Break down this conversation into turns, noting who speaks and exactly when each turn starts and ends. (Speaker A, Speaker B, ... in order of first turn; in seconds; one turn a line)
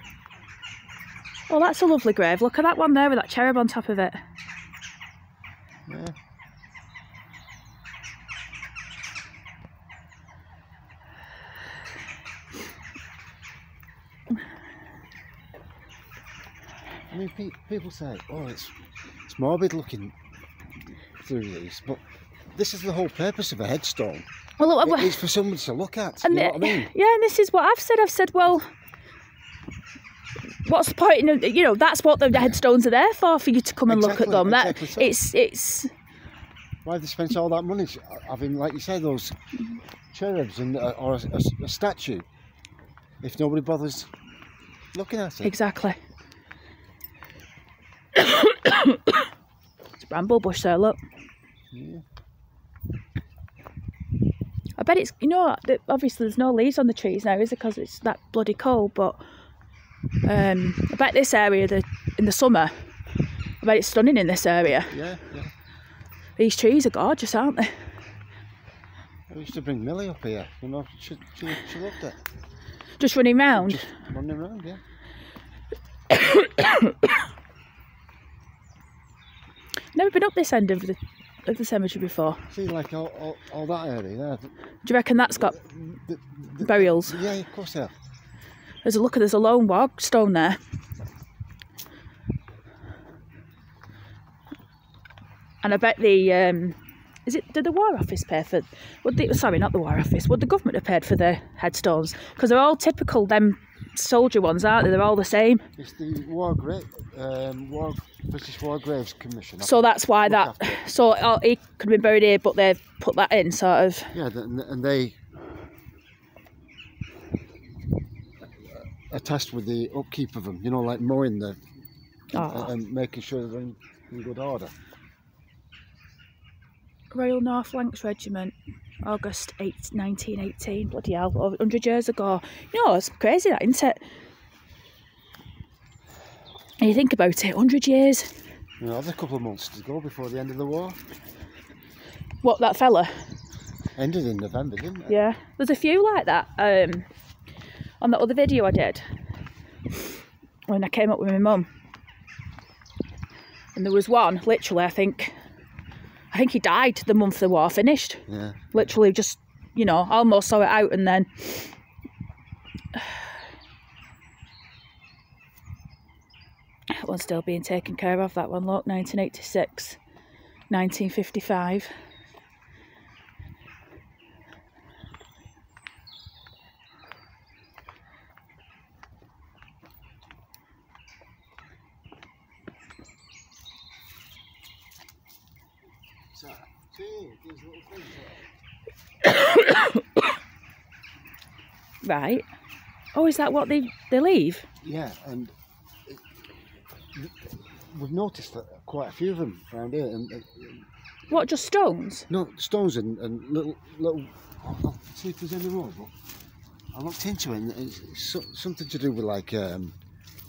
Speaker A: 1.5-4.2
Speaker B: 5.9-6.2
Speaker B: 17.1-20.1
Speaker B: 21.2-22.0
Speaker B: 22.5-24.3
Speaker A: 24.6-25.2
Speaker B: 24.8-26.9
Speaker A: 26.2-28.7
Speaker A: 30.6-35.9
Speaker B: 33.9-35.2
Speaker B: 36.8-39.4
Speaker B: 40.1-42.3
Speaker B: 43.2-44.1
Speaker B: 44.9-45.5
Speaker A: 45.4-46.0
Speaker A: 48.1-49.2
Speaker A: 50.0-51.0
Speaker B: 51.7-52.0
Speaker A: 54.8-59.2
Speaker A: 60.2-62.9
Speaker A: 63.6-65.0
Speaker B: 64.9-65.5
Speaker A: 66.4-67.7
Speaker B: 69.3-72.2
Speaker A: 73.0-73.9
Speaker B: 73.5-74.8
Speaker A: 76.1-76.9
Speaker A: 79.9-82.5
Speaker B: 82.5-84.5
Speaker A: 84.8-85.6
Speaker B: 85.2-88.0
Speaker A: 86.6-87.2
Speaker A: 88.8-90.6
Speaker A: 95.6-105.7
Speaker B: 105.8-110.8
Speaker A: 109.6-114.1
Speaker B: 114.1-115.2
Speaker B: 118.6-121.6
Speaker A: 122.3-122.7
Speaker B: 122.3-124.7
Speaker A: 127.1-134.0
Speaker A: 136.8-138.3
Speaker B: 138.8-141.0
Speaker A: 142.4-143.1
Speaker B: 144.0-145.2
Speaker A: 145.1-147.1
Speaker A: 148.0-149.0
Speaker A: 150.7-151.7
Speaker A: 153.8-155.3
Speaker A: 156.3-161.7
Speaker B: 158.3-158.7
Speaker A: 162.9-163.3
Speaker A: 167.0-170.0
Speaker A: 170.7-171.9
Speaker B: 186.3-188.5
Speaker A: 192.0-192.5
Speaker A: 193.1-194.7
Speaker B: 194.8-195.5
Speaker B: 197.2-200.9
Speaker A: 201.3-202.3
Speaker B: 202.3-206.1
Speaker B: 206.9-210.0